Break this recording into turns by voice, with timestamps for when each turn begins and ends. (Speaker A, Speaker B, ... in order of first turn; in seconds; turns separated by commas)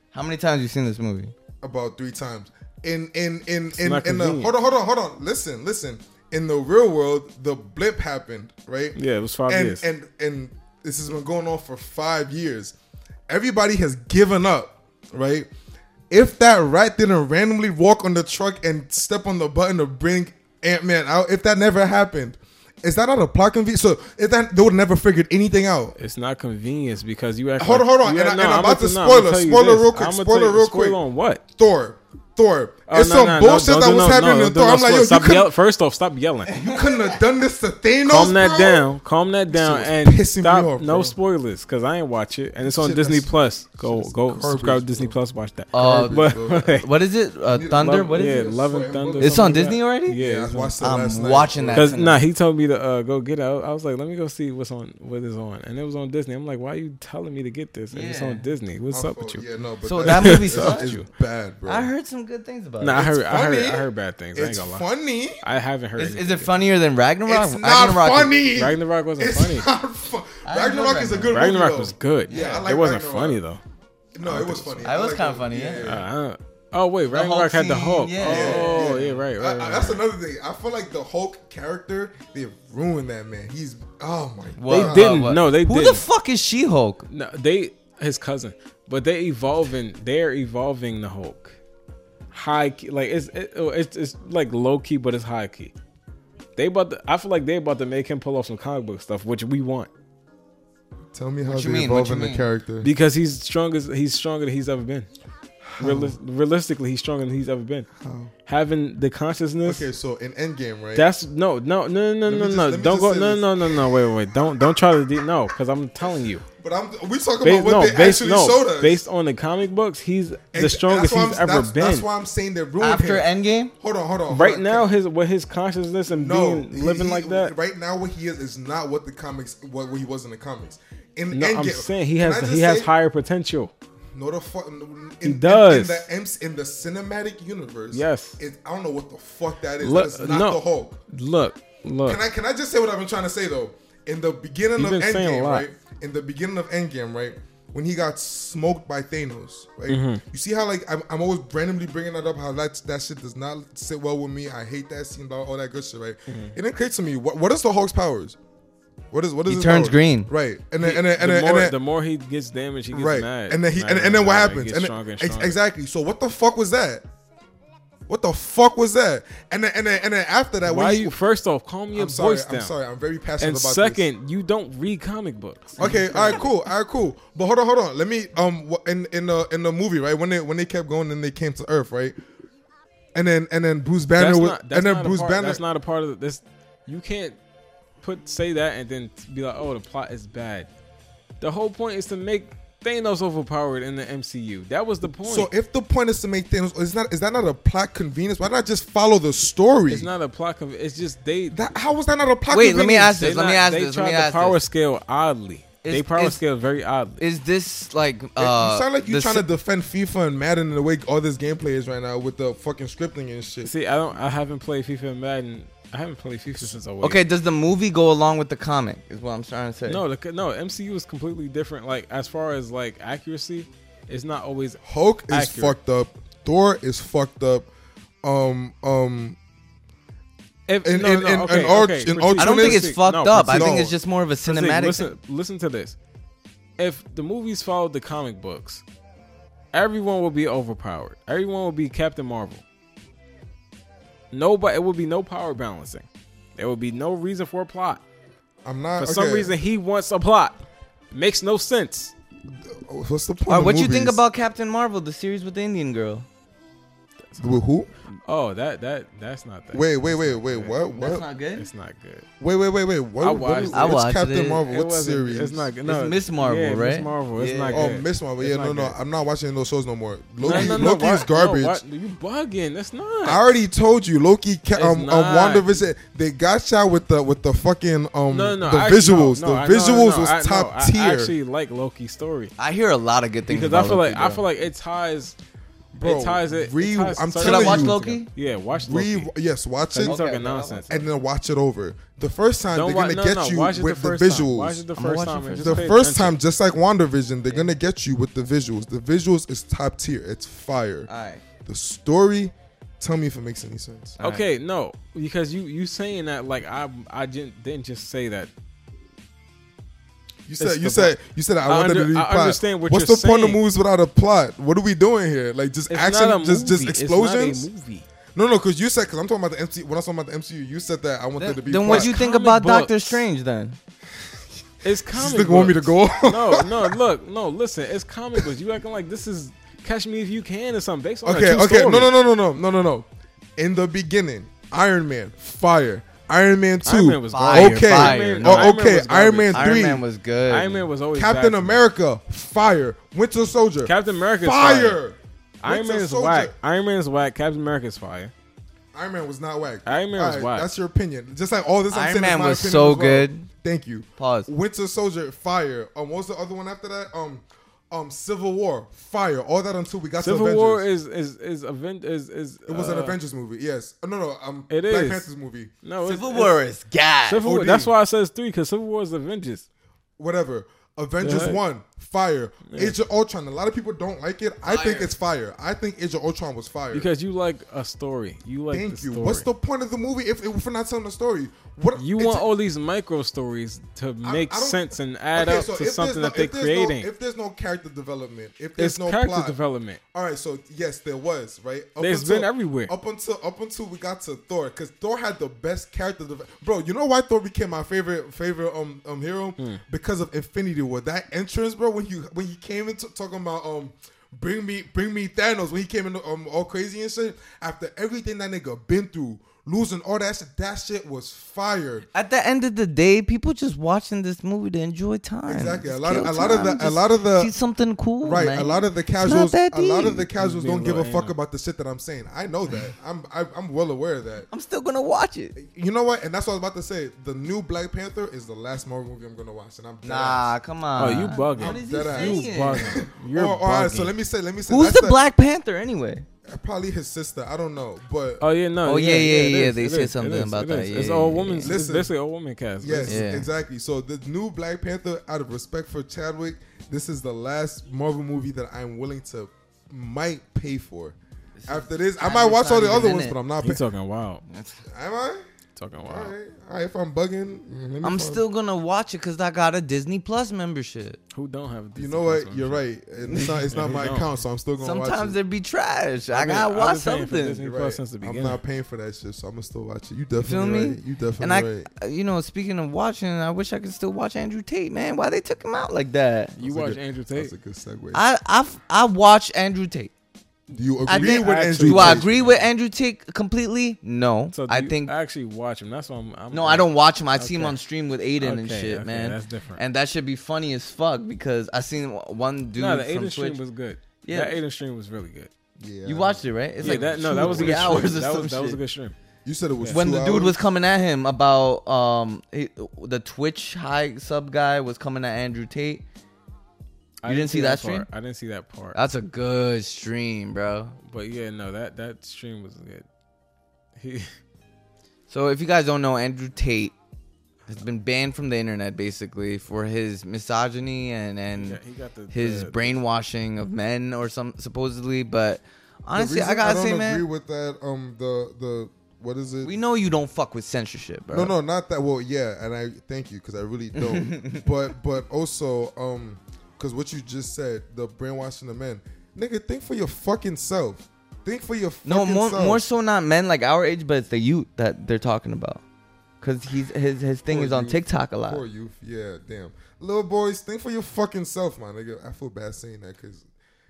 Speaker A: 0.1-1.3, Speaker B: 1.6-12.8, Speaker C: 3.7-4.5, Speaker C: 8.9-9.8, Speaker B: 13.3-15.5, Speaker B: 16.1-25.9, Speaker C: 26.0-31.4, Speaker B: 27.6-31.0, Speaker B: 31.6-35.5, Speaker C: 32.9-36.5, Speaker A: 36.5-37.2, Speaker B: 36.5-38.9, Speaker C: 38.1-46.9, Speaker B: 39.5-41.2, Speaker B: 42.6-45.2, Speaker B: 45.7-46.8, Speaker A: 45.7-48.5, Speaker B: 47.5-52.0, Speaker C: 47.9-50.8, Speaker A: 49.2-50.2, Speaker A: 50.8-52.2, Speaker C: 51.7-59.5, Speaker A: 57.9-58.4, Speaker B: 58.9-61.9, Speaker A: 59.9-61.0, Speaker C: 60.0-61.1, Speaker A: 61.7-63.0, Speaker C: 62.8-64.9, Speaker B: 63.0-65.4, Speaker C: 65.4-66.5, Speaker A: 66.0-68.4, Speaker B: 67.3-73.4, Speaker C: 68.6-69.7, Speaker A: 70.5-71.4, Speaker C: 71.3-73.6, Speaker A: 72.3-72.7, Speaker B: 74.2-76.1, Speaker A: 74.3-75.8, Speaker C: 75.8-80.0, Speaker A: 77.1-79.2, Speaker B: 78.2-85.1, Speaker A: 84.6-87.0, Speaker C: 84.7-86.0, Speaker C: 87.1-91.6, Speaker C: 92.3-95.7, Speaker C: 96.6-99.9, Speaker B: 101.1-102.9, Speaker A: 101.5-102.5, Speaker C: 102.8-105.1, Speaker B: 105.6-106.2, Speaker C: 105.8-107.9, Speaker B: 108.0-108.3, Speaker C: 108.5-109.9, Speaker B: 109.6-111.1, Speaker C: 111.0-116.4, Speaker B: 112.2-114.8, Speaker B: 116.5-119.0, Speaker C: 117.4-122.1, Speaker B: 120.5-124.9, Speaker A: 122.8-123.7, Speaker C: 124.3-127.5, Speaker B: 126.1-132.9, Speaker C: 131.3-133.7, Speaker B: 134.1-141.0, Speaker C: 135.2-136.1, Speaker C: 137.9-138.4, Speaker C: 139.8-142.2, Speaker B: 142.1-158.4, Speaker C: 144.8-145.7, Speaker C: 149.9-150.2, Speaker C: 156.3-156.6, Speaker B: 159.1-161.8, Speaker A: 159.5-160.3, Speaker C: 160.8-165.6, Speaker B: 162.9-167.1, Speaker B: 168.1-171.2, Speaker C: 170.7-172.8, Speaker B: 171.9-174.1, Speaker C: 173.4-176.5, Speaker B: 175.8-182.2, Speaker B: 183.2-185.6, Speaker C: 184.2-187.4, Speaker C: 188.0-190.7, Speaker C: 191.4-195.5, Speaker B: 195.2-200.1, Speaker C: 199.9-201.6, Speaker B: 201.5-203.2, Speaker A: 202.5-204.6, Speaker C: 203.2-207.2, Speaker A: 205.8-206.4, Speaker A: 207.2-209.4, Speaker B: 208.4-213.7, Speaker C: 213.6-217.2, Speaker A: 217.0-220.0, Speaker C: 219.9-225.8, Speaker B: 224.8-227.7, Speaker B: 228.2-229.4, Speaker C: 230.7-233.8, Speaker B: 230.8-234.0, Speaker A: 232.4-235.1, Speaker C: 234.4-236.0, Speaker C: 236.8-238.8, Speaker C: 239.7-242.6, Speaker C: 244.3-248.0, Speaker B: 248.7-249.6, Speaker C: 249.0-252.1, Speaker B: 252.5-254.2, Speaker A: 253.5-256.3, Speaker B: 257.4-257.9, Speaker C: 258.1-260.8, Speaker B: 259.7-261.3, Speaker A: 261.0-261.7, Speaker C: 261.6-262.3, Speaker B: 262.4-265.7, Speaker C: 263.2-264.0, Speaker A: 263.7-264.6, Speaker C: 264.6-269.0, Speaker A: 265.9-267.9, Speaker B: 267.7-271.8, Speaker C: 270.4-273.4, Speaker A: 270.4-270.8, Speaker B: 273.2-281.4, Speaker C: 274.7-275.8, Speaker C: 278.3-282.5, Speaker A: 282.6-284.4, Speaker C: 283.5-285.4, Speaker B: 285.9-287.9, Speaker C: 286.0-289.3, Speaker A: 287.4-288.3, Speaker B: 288.7-290.2, Speaker C: 289.9-291.0, Speaker A: 290.0-290.8, Speaker B: 290.9-294.8, Speaker C: 292.7-296.4, Speaker A: 295.0-295.9, Speaker B: 295.6-301.1, Speaker A: 301.1-301.4, Speaker B: 301.7-304.1, Speaker A: 304.2-304.4, Speaker C: 304.2-308.5, Speaker B: 310.5-317.7, Speaker C: 310.6-313.6, Speaker C: 315.9-318.1, Speaker B: 318.4-322.1, Speaker A: 321.4-323.8, Speaker C: 321.9-323.2, Speaker C: 324.8-332.1, Speaker B: 325.1-326.9, Speaker B: 331.2-340.0, Speaker C: 336.9-339.8, Speaker A: 337.3-338.8, Speaker A: 339.5-340.9, Speaker C: 340.5-341.8, Speaker B: 341.1-346.6, Speaker C: 343.8-345.0, Speaker C: 345.6-348.3, Speaker B: 348.9-360.9, Speaker C: 349.9-350.7, Speaker A: 351.9-353.5, Speaker A: 354.2-354.5, Speaker C: 360.2-363.2, Speaker B: 362.7-365.7, Speaker C: 364.7-365.3, Speaker C: 365.8-366.5, Speaker A: 366.0-367.4, Speaker C: 367.3-369.7, Speaker B: 367.4-367.9, Speaker B: 370.2-377.1, Speaker C: 371.2-371.6, Speaker C: 372.7-373.0, Speaker A: 374.7-375.1, Speaker C: 376.9-379.5, Speaker B: 378.7-382.5, Speaker C: 382.0-387.1, Speaker B: 384.2-389.6, Speaker C: 388.8-390.0, Speaker B: 390.1-412.1, Speaker C: 392.0-392.9, Speaker A: 412.1-420.3, Speaker B: 415.5-417.5, Speaker B: 418.2-424.5, Speaker C: 420.4-421.3, Speaker A: 424.5-425.6, Speaker B: 425.6-430.5, Speaker A: 430.0-433.0, Speaker C: 431.0-434.1, Speaker B: 431.6-435.2, Speaker A: 434.7-436.3, Speaker B: 436.5-438.4, Speaker C: 438.4-443.2, Speaker A: 438.9-441.7, Speaker B: 441.6-442.1, Speaker B: 442.8-451.2, Speaker A: 443.1-443.5, Speaker A: 451.6-453.4, Speaker B: 451.7-453.8, Speaker C: 453.6-454.4, Speaker A: 454.5-454.8, Speaker B: 454.9-455.4, Speaker C: 455.8-456.3, Speaker B: 456.1-458.4, Speaker A: 458.0-461.2, Speaker C: 461.3-464.3, Speaker B: 461.9-465.4, Speaker A: 464.8-467.6, Speaker C: 466.3-468.6, Speaker B: 467.6-471.9, Speaker A: 470.4-476.6, Speaker C: 476.6-477.5, Speaker B: 476.6-478.2, Speaker A: 478.1-480.1, Speaker B: 480.7-482.2, Speaker C: 481.1-482.6, Speaker A: 481.1-485.1, Speaker C: 484.5-487.8, Speaker A: 486.5-493.6, Speaker C: 488.4-489.8, Speaker C: 492.8-495.5, Speaker A: 494.2-494.6, Speaker B: 495.8-498.3, Speaker A: 496.1-498.8, Speaker C: 496.8-499.1, Speaker B: 499.4-500.6, Speaker A: 499.9-506.1, Speaker C: 507.2-509.0, Speaker A: 507.3-508.1, Speaker A: 508.9-511.0, Speaker C: 511.0-513.1, Speaker C: 514.0-514.3, Speaker A: 515.3-516.9, Speaker A: 517.7-527.2, Speaker C: 521.6-523.0, Speaker B: 526.1-529.8, Speaker A: 529.6-531.5, Speaker B: 531.3-542.8, Speaker A: 534.0-534.7, Speaker A: 542.0-545.8, Speaker A: 546.4-548.6, Speaker B: 547.5-553.5